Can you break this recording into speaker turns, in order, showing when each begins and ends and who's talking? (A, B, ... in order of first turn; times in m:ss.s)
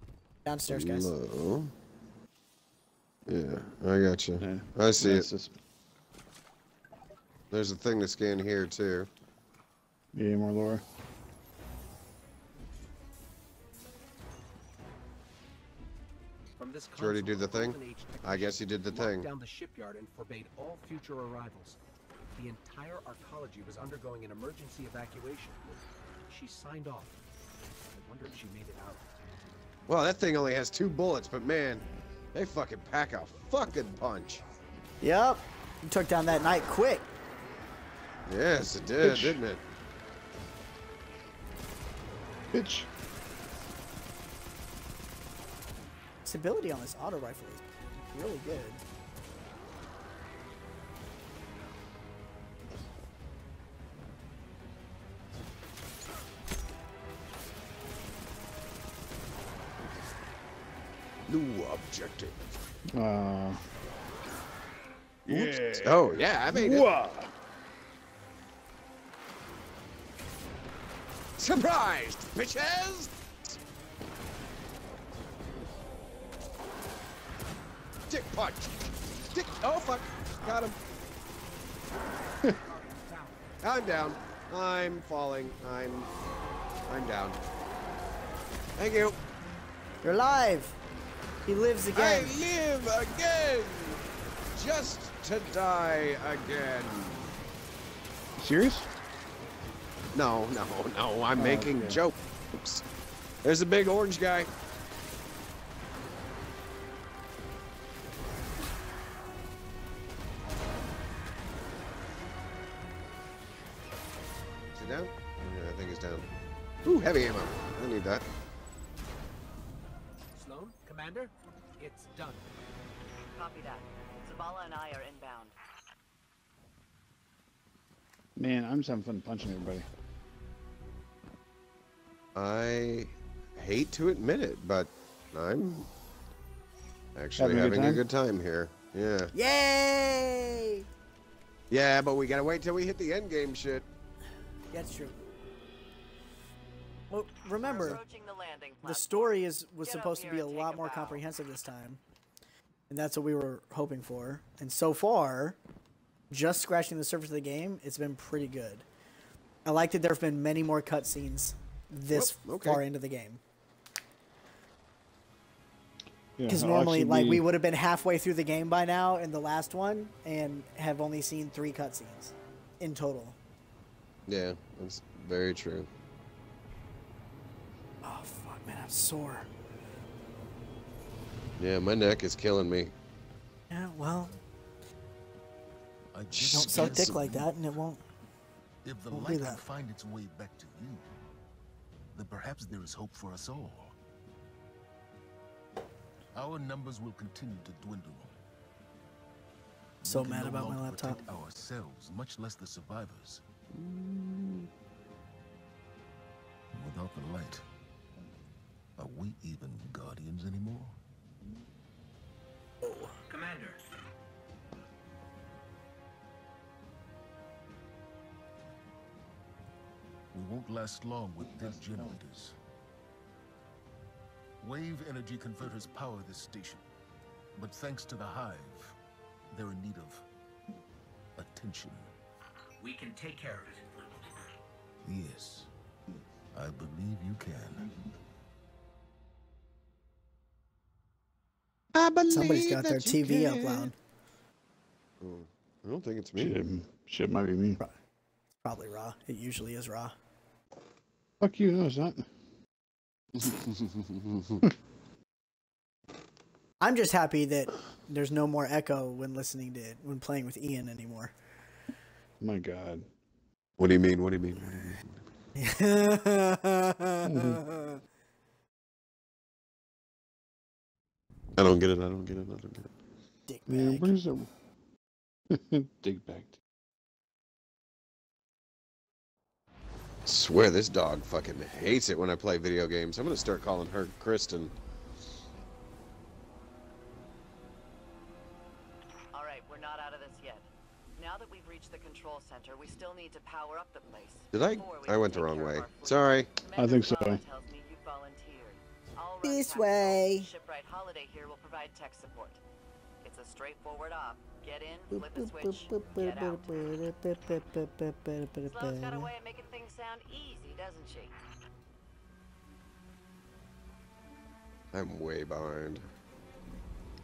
0:00.4-0:01.1 A
0:00.7-0:01.7 B
0:03.3-0:05.3 B
0:04.4-0:05.6 C
0:07.5-0:09.1 B
0:10.1-0:10.8 C
0:16.6-0:21.8 D
0:17.0-0:19.3 B
0:22.4-0:27.2 D
0:27.9-0:29.1 D
0:29.9-0:34.4 B
0:35.0-0:37.1 A
0:38.3-0:39.6 B
0:39.0-0:39.4 C
0:42.5-0:42.9 C
0:46.2-0:48.8 A
1:01.3-1:02.5 B
1:02.9-1:03.6 C
1:05.2-1:07.3 C
1:05.3-1:06.8 B
1:11.4-1:13.5 B
1:18.1-1:20.8 B
1:22.4-1:23.5 D
1:23.6-1:26.1 B
1:26.9-1:27.4 B
1:28.8-1:29.2 B
1:30.0-1:30.8 A
1:31.4-1:32.3 A
1:31.9-1:34.0 B
1:34.5-1:37.3 B
1:38.4-1:38.9 C
1:40.1-1:42.8 B
1:41.3-1:42.0 C
1:43.4-1:44.5 B
1:54.7-1:56.3 B
1:56.8-1:58.2 B
2:00.3-2:02.5 D
2:03.3-2:05.5 E
2:08.4-2:09.8 C
2:12.3-2:15.9 B
2:17.2-2:19.3 B
2:17.4-2:18.0 C
2:19.3-2:20.9 A
2:21.7-2:23.8 B
2:24.7-2:25.2 A
2:27.1-2:28.0 A
2:27.6-2:31.2 E
2:28.8-2:32.0 A
2:32.9-2:35.6 A
2:36.3-2:38.8 A
2:39.6-2:43.4 A
2:42.1-2:42.8 B
2:46.4-2:47.4 C
2:46.5-2:53.4 A
2:54.3-2:55.9 B
2:58.0-2:59.5 A
3:01.6-3:02.9 B
3:03.7-3:04.4 A
3:06.1-3:07.5 F
3:06.3-3:07.2 B
3:06.5-3:08.0 A
3:08.8-3:11.0 F
3:09.1-3:09.6 A
3:12.1-3:14.0 F
3:16.3-3:18.4 F
3:20.0-3:23.4 F
3:20.0-3:21.2 A
3:23.7-3:24.7 B
3:26.7-3:27.6 F
3:29.0-3:31.0 F
3:32.8-3:33.8 D
3:40.3-3:42.5 F
3:41.6-3:42.2 C
3:44.6-3:46.8 F
3:47.6-3:49.0 F
3:49.5-3:50.2 F
3:51.4-3:52.1 F
3:52.8-3:54.2 D
3:55.0-3:55.7 F
3:56.5-3:57.9 F
4:01.9-4:03.9 B
4:02.3-4:03.9 A
4:05.2-4:06.6 B
4:06.4-4:07.8 C
4:08.6-4:10.1 A
4:11.4-4:12.3 C
4:13.4-4:14.6 B
4:16.8-4:21.3 A
4:22.4-4:23.1 C
4:23.8-4:25.1 B
4:25.6-4:28.0 A
4:27.2-4:27.6 C
4:31.6-4:32.9 B
4:33.5-4:34.1 A
4:33.7-4:34.5 C
4:35.5-4:36.6 C
4:40.2-4:44.7 B
4:49.3-5:02.6 E
4:54.5-4:56.5 B
4:56.8-4:57.4 C
4:59.4-5:00.5 A
5:03.2-5:07.0 E
5:05.1-5:09.3 A
5:08.6-5:11.3 E
5:14.9-5:16.0 B